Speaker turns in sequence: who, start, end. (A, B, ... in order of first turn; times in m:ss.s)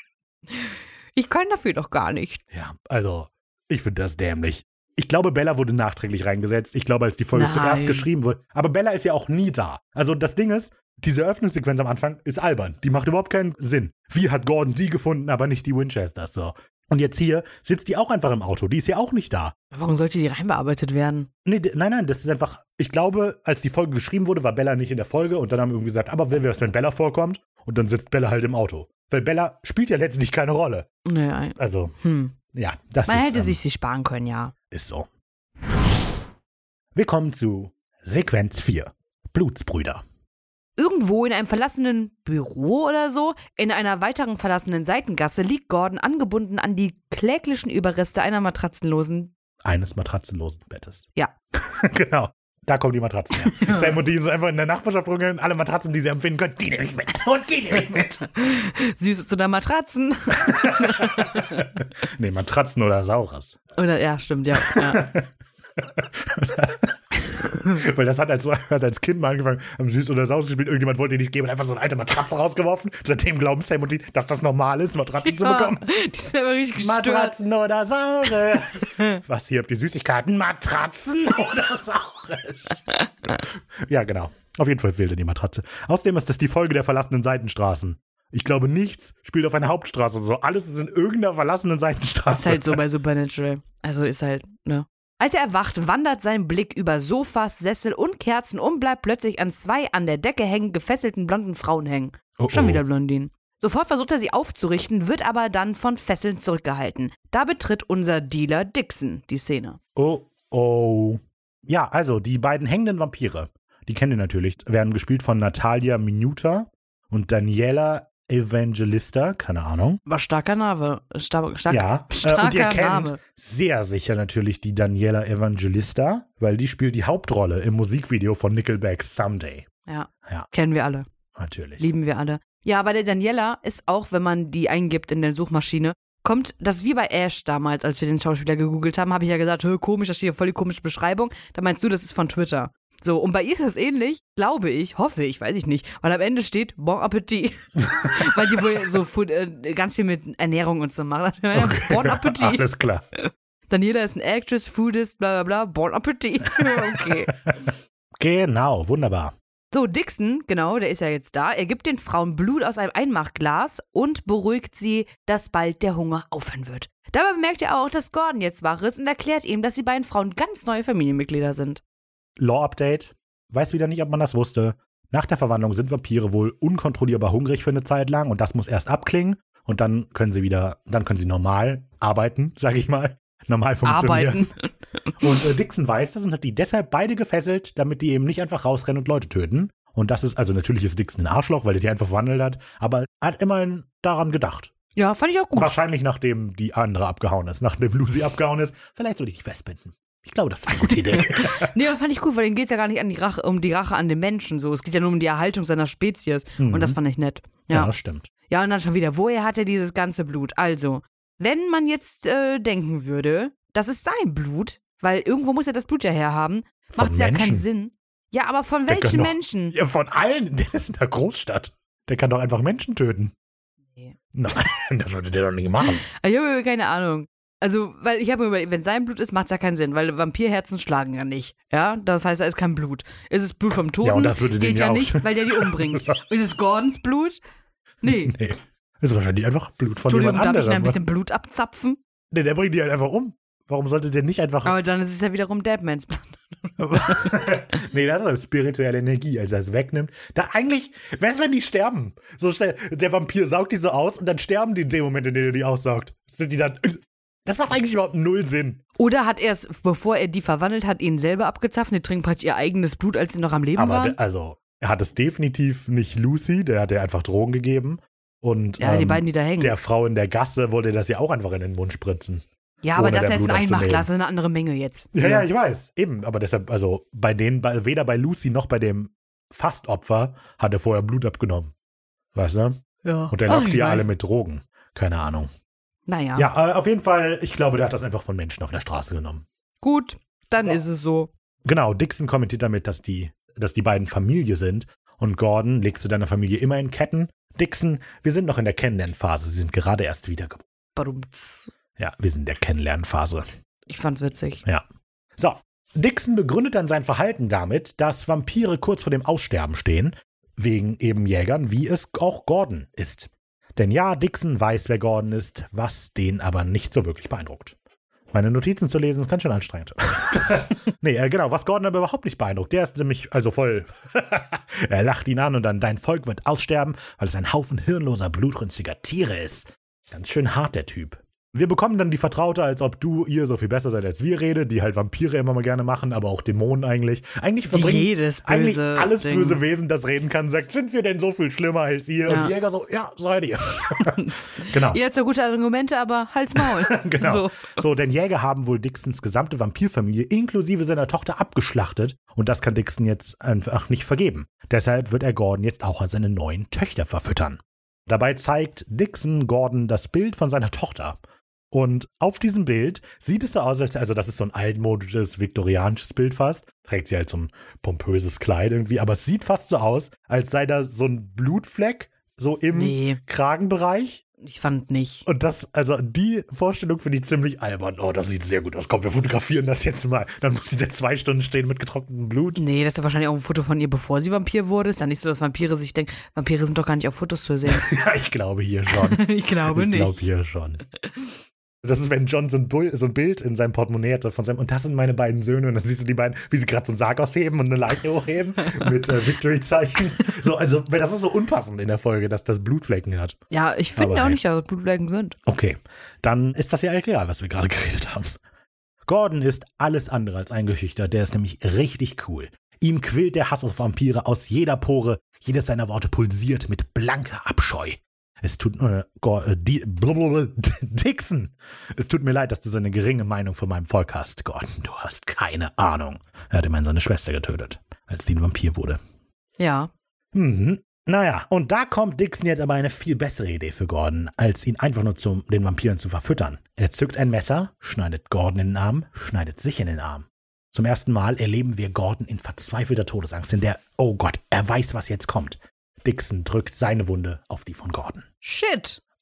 0:00.6-0:02.4 A
0:02.5-0:19.5 B
0:07.3-0:08.1 A
0:19.7-0:21.3 A
0:21.4-0:30.9 B
0:31.0-0:32.3 A
0:31.6-0:32.0 B
0:32.5-0:33.6 B
0:33.1-0:34.5 A
0:34.7-0:35.1 B
0:36.9-0:40.0 B
0:40.8-0:49.3 A
0:49.6-0:58.2 B
0:53.4-0:54.0 A
0:58.3-1:01.7 A
1:00.4-1:03.6 B
1:03.8-1:05.1 A
1:04.6-1:06.9 B
1:07.5-1:15.8 B
1:15.2-1:17.4 A
1:16.8-1:22.8 B
1:23.8-1:32.8 B
1:32.3-1:49.8 A
1:42.4-1:42.8 B
1:49.9-2:00.0 B
2:00.0-2:03.2 A
2:01.7-2:09.7 B
2:09.8-2:11.0 A
2:11.4-2:11.8 B
2:11.8-2:32.6 A
2:28.0-2:28.6 B
2:31.5-2:33.0 B
2:33.2-2:37.3 A
2:36.6-2:39.3 B
2:39.7-2:51.8 A
2:52.4-3:04.5 B
3:03.8-3:04.7 A
3:05.2-3:14.7 B
3:15.0-3:15.8 A
3:15.6-3:21.8 B
3:21.1-3:27.9 A
3:26.6-3:27.0 B
3:27.7-3:28.3 B
3:28.5-3:39.7 A
3:36.9-3:37.6 B
3:38.9-3:43.3 B
3:44.3-3:46.0 B
3:45.9-3:57.4 A
3:54.0-3:56.2 B
3:58.0-3:58.3 A
3:58.0-4:01.0 B
4:00.1-4:02.0 A
4:02.3-4:04.8 B
4:04.6-4:07.6 A
4:06.8-4:18.8 B
4:19.0-4:24.2 A
4:23.8-4:34.1 B
4:28.8-4:29.7 A
4:32.8-4:35.5 A
4:35.1-4:41.7 B
4:42.3-4:42.8 B
4:43.0-4:44.1 A
4:43.3-4:45.5 B
4:46.1-4:46.5 A
4:46.4-4:49.4 B
4:49.8-4:51.3 A
4:51.6-5:00.6 B
5:01.0-5:01.7 A
5:02.0-5:03.4 B
5:03.9-5:04.6 A
5:05.4-5:17.8 B
5:18.3-5:45.0 B
5:37.7-5:39.6 A
5:42.3-5:42.5 A
5:44.0-5:47.8 A
5:46.6-6:01.2 B
6:01.7-6:14.2 B
6:12.7-6:13.2 A
6:14.4-6:15.3 A
6:15.2-6:22.6 B
6:22.6-6:27.9 A
6:27.7-6:30.8 B
6:28.9-6:30.2 A
6:31.8-6:43.4 B
6:43.5-6:45.4 A
6:44.0-6:44.4 B
6:45.4-6:48.3 B
6:49.0-7:09.0 B
7:09.6-7:09.9 A
7:10.3-7:28.2 B
7:28.4-7:29.0 A